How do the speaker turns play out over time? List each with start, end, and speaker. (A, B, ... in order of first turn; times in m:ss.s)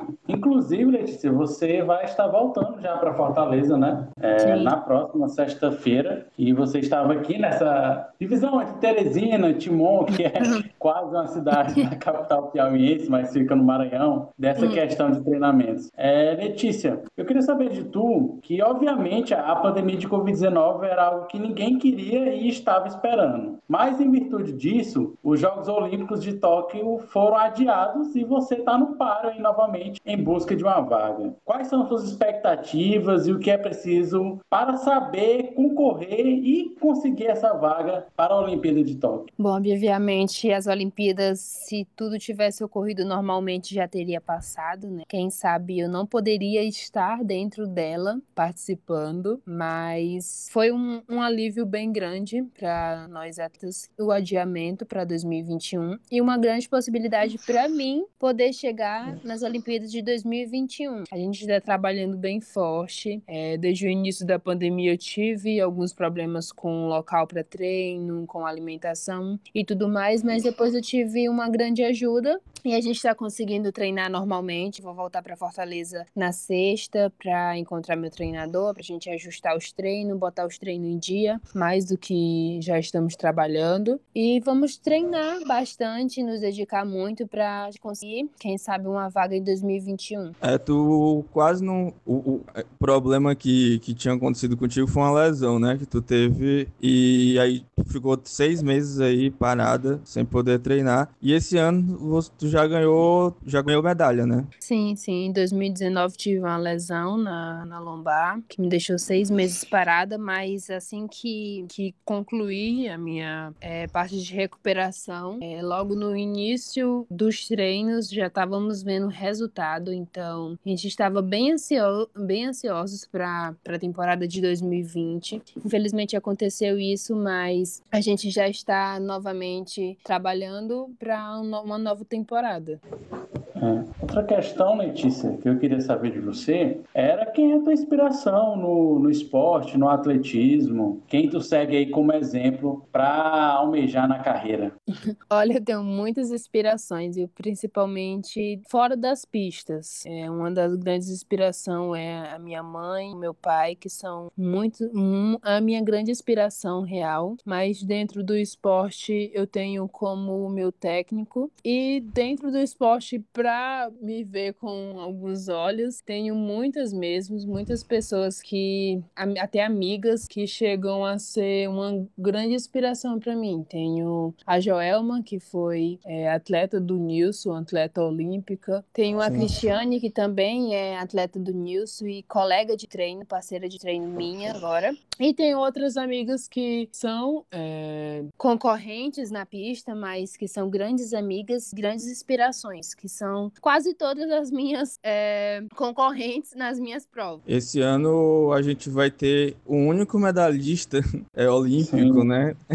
0:00.3-0:39.3 A
0:04.4-0:04.8 B
0:14.6-0:14.8 B
0:39.4-1:30.3 B
1:30.4-1:44.5 C
1:44.6-2:12.8 B
2:13.6-2:24.7 A
2:25.3-3:17.4 B
2:59.2-2:59.5 C
3:17.5-3:22.6 C
3:21.8-3:22.3 A